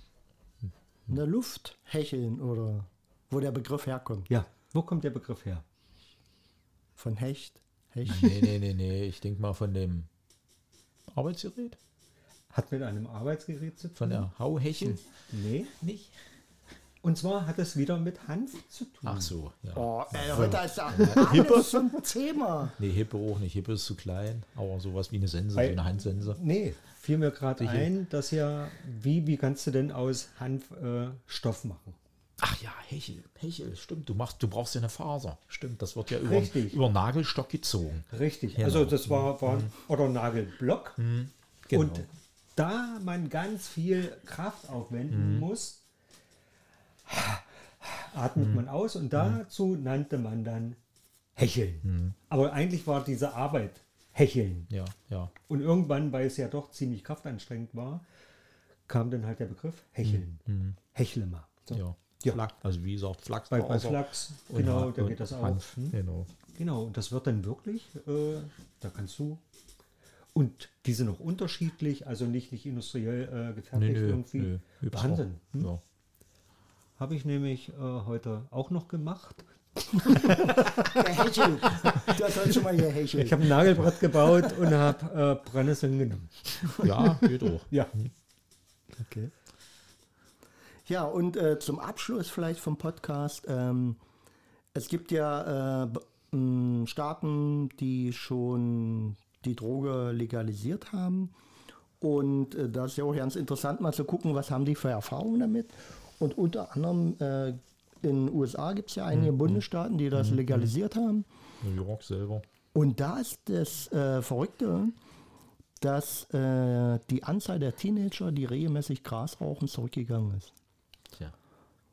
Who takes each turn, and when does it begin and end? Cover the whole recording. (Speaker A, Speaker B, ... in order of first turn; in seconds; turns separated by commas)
Speaker A: 1.1-4.3, Speaker B: 4.3-5.6, Speaker A: 7.0-8.5, Speaker C: 8.0-10.1, Speaker C: 11.1-11.8, Speaker B: 12.5-14.3, Speaker C: 13.9-15.0, Speaker B: 15.3-15.7, Speaker C: 15.8-16.1, Speaker B: 17.0-19.3, Speaker C: 19.0-21.9, Speaker A: 19.7-22.8, Speaker B: 21.0-21.3, Speaker C: 22.8-26.4, Speaker B: 25.5-32.0, Speaker C: 27.6-27.9, Speaker C: 32.4-39.7, Speaker B: 36.2-36.8, Speaker B: 38.1-41.0, Speaker C: 41.0-42.0, Speaker B: 41.7-45.8, Speaker C: 45.1-45.5, Speaker B: 47.0-50.8, Speaker C: 48.4-49.4, Speaker B: 51.4-54.7, Speaker C: 51.8-52.1, Speaker C: 54.7-55.3, Speaker B: 55.5-58.0, Speaker B: 58.9-62.4, Speaker C: 60.0-60.8, Speaker C: 61.7-66.3, Speaker B: 63.5-66.0, Speaker B: 66.5-69.4, Speaker B: 70.3-75.7, Speaker C: 73.7-75.8, Speaker B: 77.0-87.9, Speaker A: 80.9-83.9, Speaker C: 86.7-88.1, Speaker A: 89.0-89.3, Speaker A: 90.8-94.0, Speaker A: 94.7-101.3, Speaker A: 102.0-111.2, Speaker C: 109.1-109.6, Speaker C: 110.1-110.7, Speaker C: 111.6-112.5, Speaker A: 112.7-114.9, Speaker A: 115.8-120.5